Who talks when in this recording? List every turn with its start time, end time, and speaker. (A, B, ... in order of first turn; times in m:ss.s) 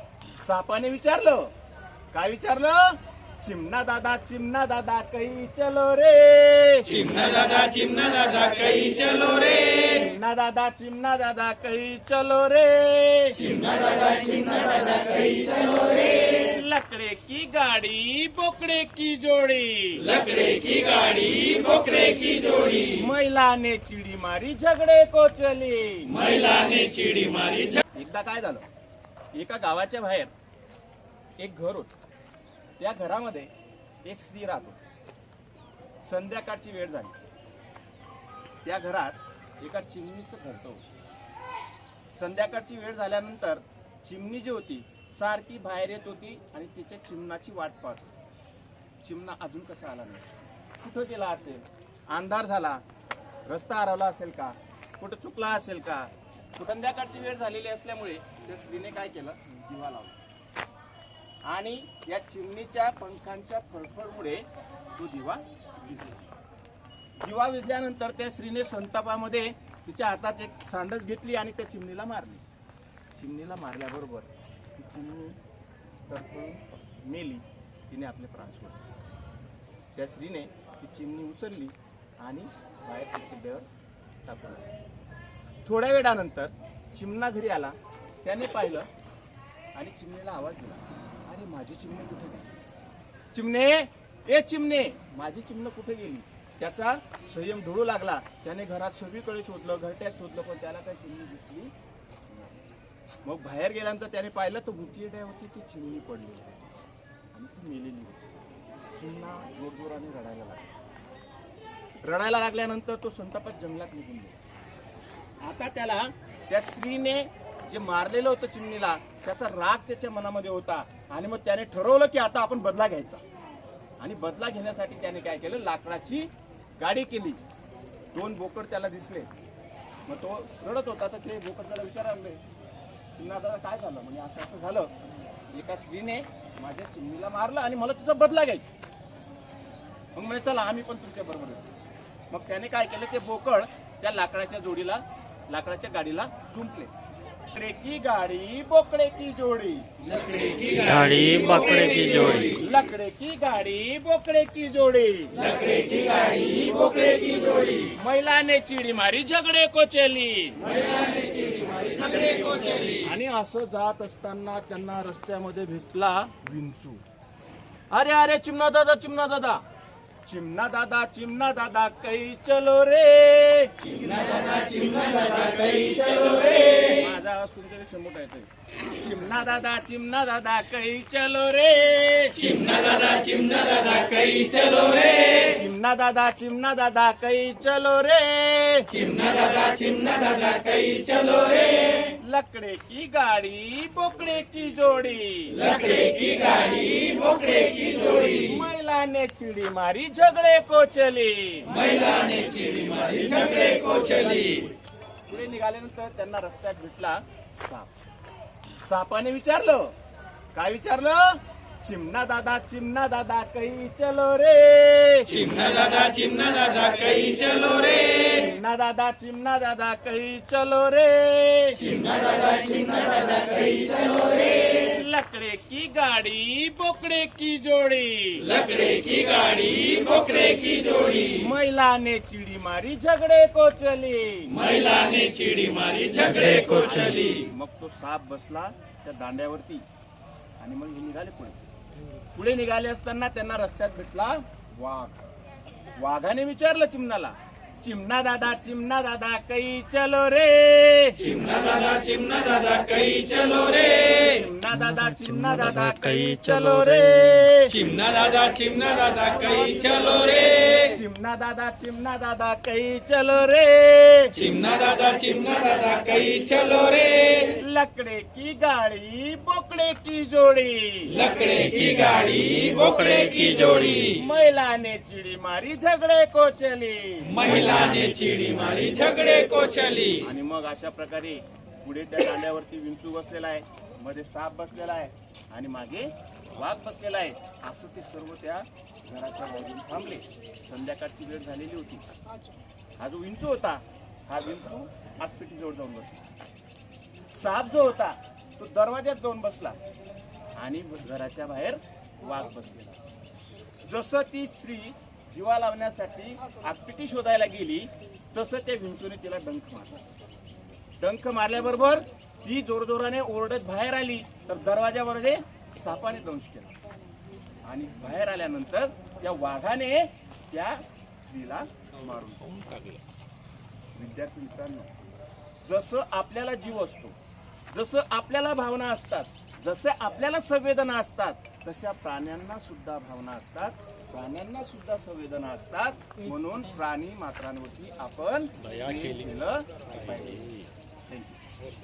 0:00.4-0:01.5 A
0:02.1-0:07.4 A
0:07.1-0:09.8 B
0:09.6-0:13.9 A
0:14.1-0:15.8 B
0:16.2-0:20.3 A
0:20.3-0:22.8 B
0:22.7-0:26.3 A
0:26.2-0:27.8 B
0:27.9-0:28.6 A
0:29.3-0:30.3 A
0:31.4-0:32.0 A
0:32.8-0:33.5 A
0:34.0-0:34.8 A
0:36.0-0:37.2 A
0:38.6-0:40.8 A
0:42.1-0:48.1 A
0:49.0-0:52.8 A
0:53.4-1:00.2 A
1:01.4-1:06.2 A
1:07.2-1:12.4 A
1:13.2-1:15.4 A
1:16.1-1:18.8 A
1:20.0-1:23.6 A
1:24.2-1:24.6 A
1:25.6-1:28.9 A
1:29.8-1:32.5 A
1:33.3-1:41.7 A
1:42.3-1:42.6 A
1:43.2-1:46.7 A
1:47.3-1:48.4 A
1:49.0-1:50.7 A
1:52.0-1:54.4 A
1:55.4-2:03.2 A
2:04.0-2:07.4 A
2:08.1-2:09.3 A
2:10.1-2:12.4 A
2:13.2-2:14.9 A
2:15.5-2:18.7 A
2:20.1-2:21.7 A
2:22.3-2:26.9 A
2:27.5-2:29.9 A
2:30.2-2:30.8 B
2:30.7-2:32.6 C
2:32.4-2:40.7 A
2:35.8-2:37.2 B
2:41.1-2:42.8 B
2:42.8-2:47.0 A
2:47.9-2:49.6 A
2:50.2-2:54.5 A
2:54.0-2:56.6 B
2:56.6-3:03.4 A
3:03.2-3:05.4 B
3:05.2-3:09.1 A
3:09.0-3:11.9 B
3:12.0-3:16.6 A
3:16.0-3:18.2 B
3:18.0-3:21.9 A
3:21.8-3:24.6 B
3:23.4-3:24.5 A
3:25.3-3:27.9 A
3:28.8-3:29.9 A
3:30.5-3:35.5 A
3:35.3-3:38.1 B
3:38.0-3:42.2 A
3:42.7-3:44.3 B
3:44.6-3:48.6 A
3:48.6-3:51.3 B
3:51.2-3:54.7 A
3:54.6-3:57.2 B
3:56.3-3:59.8 A
4:00.6-4:01.6 A
4:02.3-4:05.2 A
4:06.0-4:11.5 A
4:11.3-4:13.9 B
4:13.7-4:17.9 A
4:14.7-4:17.4 C
4:17.8-4:20.5 B
4:18.8-4:24.5 A
4:24.4-4:27.5 B
4:27.5-4:31.2 A
4:31.2-4:34.1 B
4:34.0-4:37.9 A
4:37.4-4:40.2 B
4:40.2-4:52.0 A
4:53.0-4:56.3 A
4:57.3-4:59.8 A
5:00.6-5:03.0 A
5:03.8-5:10.0 A
5:11.0-5:16.8 A
5:17.6-5:22.8 A
5:23.9-5:24.9 A
5:25.6-5:27.2 A
5:27.7-5:41.5 A